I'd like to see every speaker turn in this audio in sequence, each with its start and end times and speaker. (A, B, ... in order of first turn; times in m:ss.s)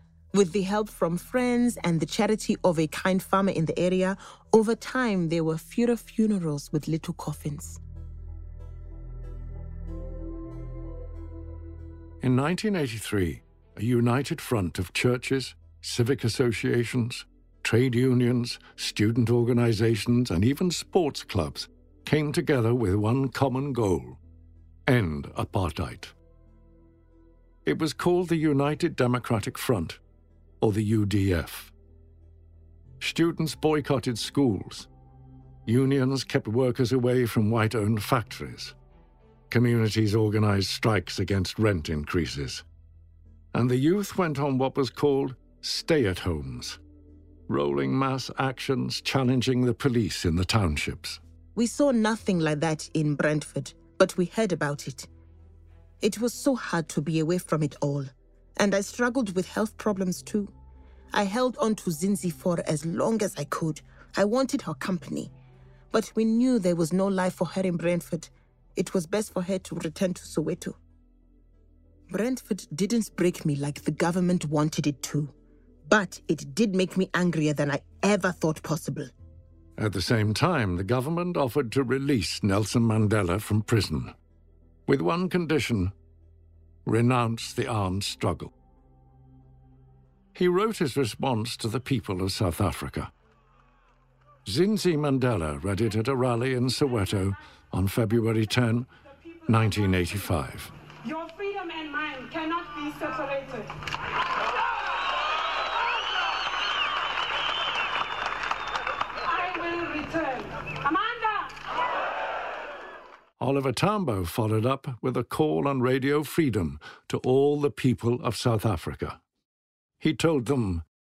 0:00.3-0:07.8 A
0:12.2-0:24.2 B
0:24.8-0:26.1 B
0:27.6-0:30.0 B
0:30.6-0:31.7 B
0:33.0-0:34.9 B
0:35.6-0:38.7 B
0:39.5-0:42.6 B
0:43.5-0:46.8 B
0:47.5-0:51.2 B
0:51.5-0:55.1 A
0:56.0-1:00.5 A
1:01.1-1:05.3 A
1:05.9-1:10.8 A
1:12.1-1:15.3 A
1:15.9-1:19.1 A
1:19.8-1:24.1 B
1:24.9-1:25.9 B
1:26.8-1:28.5 B
1:30.3-1:33.1 B
1:34.4-1:38.9 B
1:39.5-1:40.7 B
1:41.0-1:43.7 C
1:49.2-1:51.6 C
1:53.4-1:59.2 B
2:00.0-2:00.8 B